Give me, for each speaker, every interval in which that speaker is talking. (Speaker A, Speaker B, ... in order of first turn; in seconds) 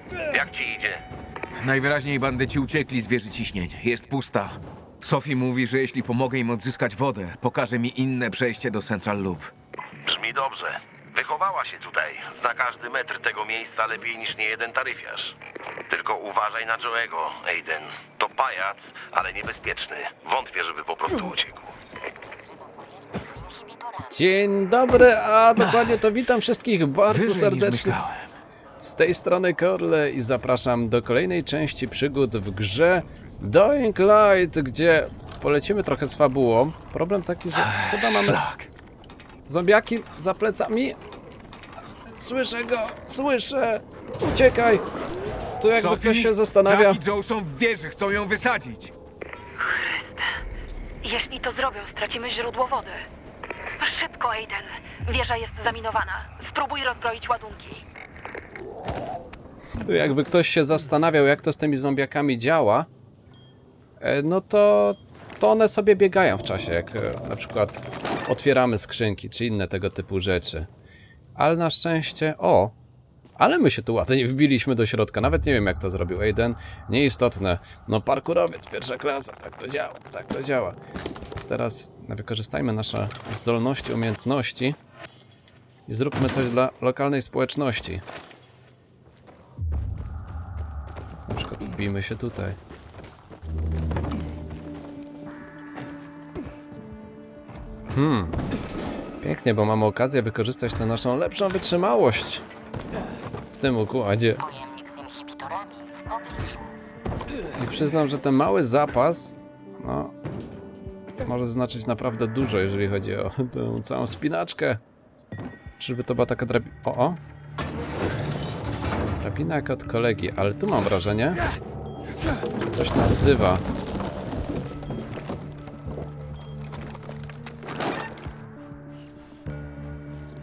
Speaker A: 0.2-1.0, 10.0-15.3, 15.9-21.7
Speaker B: 1.6-9.5, 27.1-28.3, 37.5-38.7, 45.7-48.9
Speaker C: 22.2-24.1, 104.4-106.7
Speaker D: 24.1-28.0, 28.8-38.4, 39.5-41.0, 42.1-44.9, 45.6-47.0, 59.8-62.9, 64.0-70.7, 71.4-72.7, 73.4-80.8, 81.3-84.8, 85.9-88.0, 91.3-92.6, 97.9-98.4, 99.2-102.4, 103.5-104.4, 107.5-110.1, 111.2-114.8, 115.8-117.2, 119.2-121.4, 122.7-123.6
Speaker E: 49.6-50.2, 51.0-53.0, 53.8-57.8